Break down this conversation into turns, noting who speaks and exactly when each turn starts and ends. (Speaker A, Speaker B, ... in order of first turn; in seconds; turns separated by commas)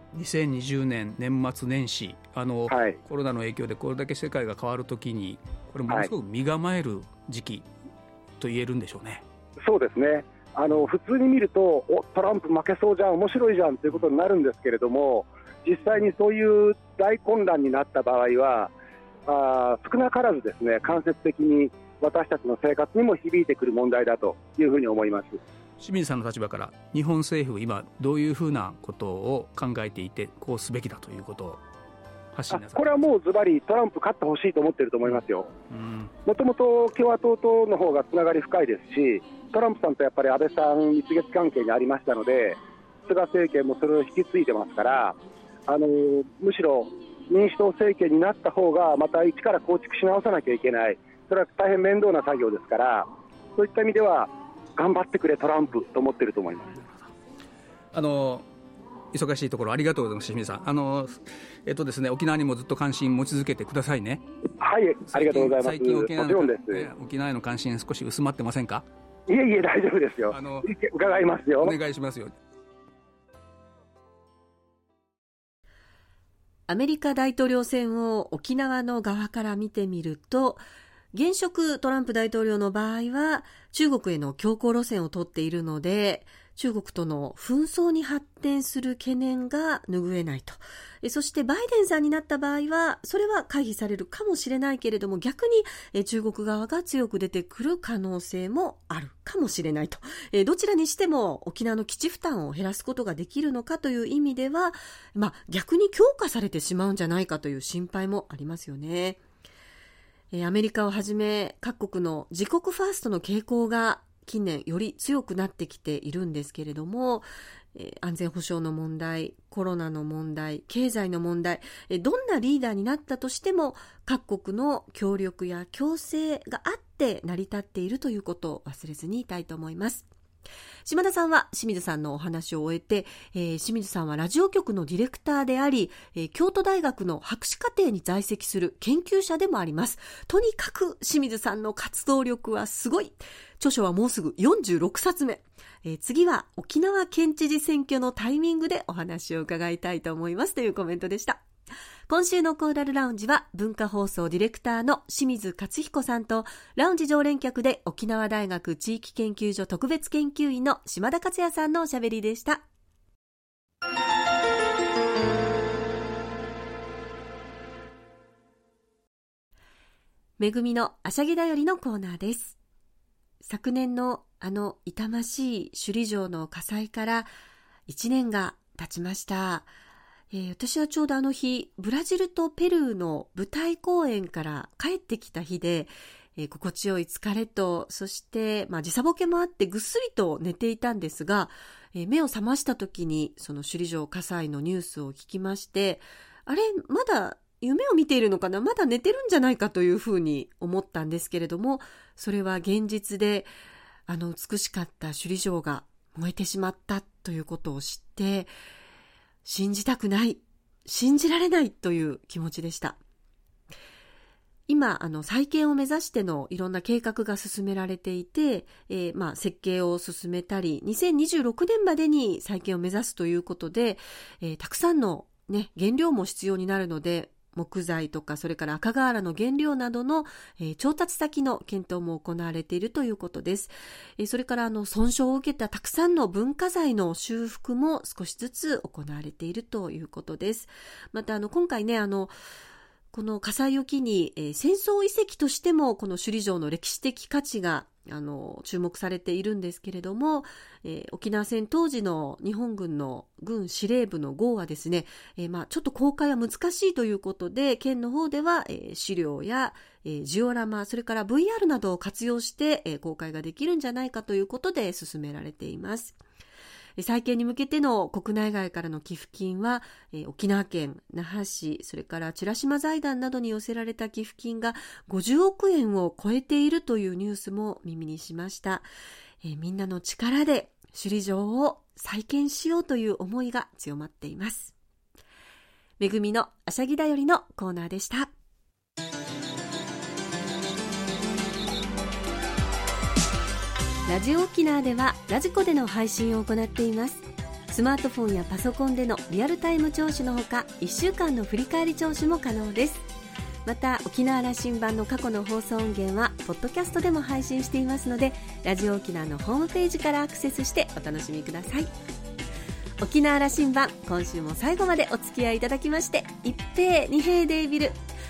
Speaker A: 0.1-7.7, Speaker B: 2.7-3.0, Speaker A: 8.4-9.2, Speaker B: 9.6-18.7, Speaker B: 19.3-25.4, Speaker A: 25.8-31.6, Speaker A: 32.3-32.9, Speaker B: 32.5-35.5, Speaker A: 35.7-36.1, Speaker B: 36.3-56.8, Speaker A: 57.9-58.5, Speaker A: 59.1-64.2, Speaker B: 64.6-66.9, Speaker A: 65.1-68.9, Speaker B: 69.3-71.8, Speaker A: 70.3-70.7, Speaker A: 71.6-72.3, Speaker C: 76.7-109.2, Speaker C: 110.3-130.1, Speaker C: 130.8-151.4, Speaker C: 152.1-162.7, Speaker C: 170.4-172.6, Speaker C: 173.4-177.3, Speaker C: 177.9-179.7, Speaker C: 180.3-203.5, Speaker C: 204.1-208.5, Speaker C: 209.4-213.0, Speaker C: 214.7-242.3, Speaker C: 243.1-266.2, Speaker C: 267.0-278.9, Speaker C: 279.4-284.7, Speaker C: 286.0-288.3, Speaker C: 294.1-303.1, Speaker C: 303.6-311.9, Speaker C: 313.0-318.0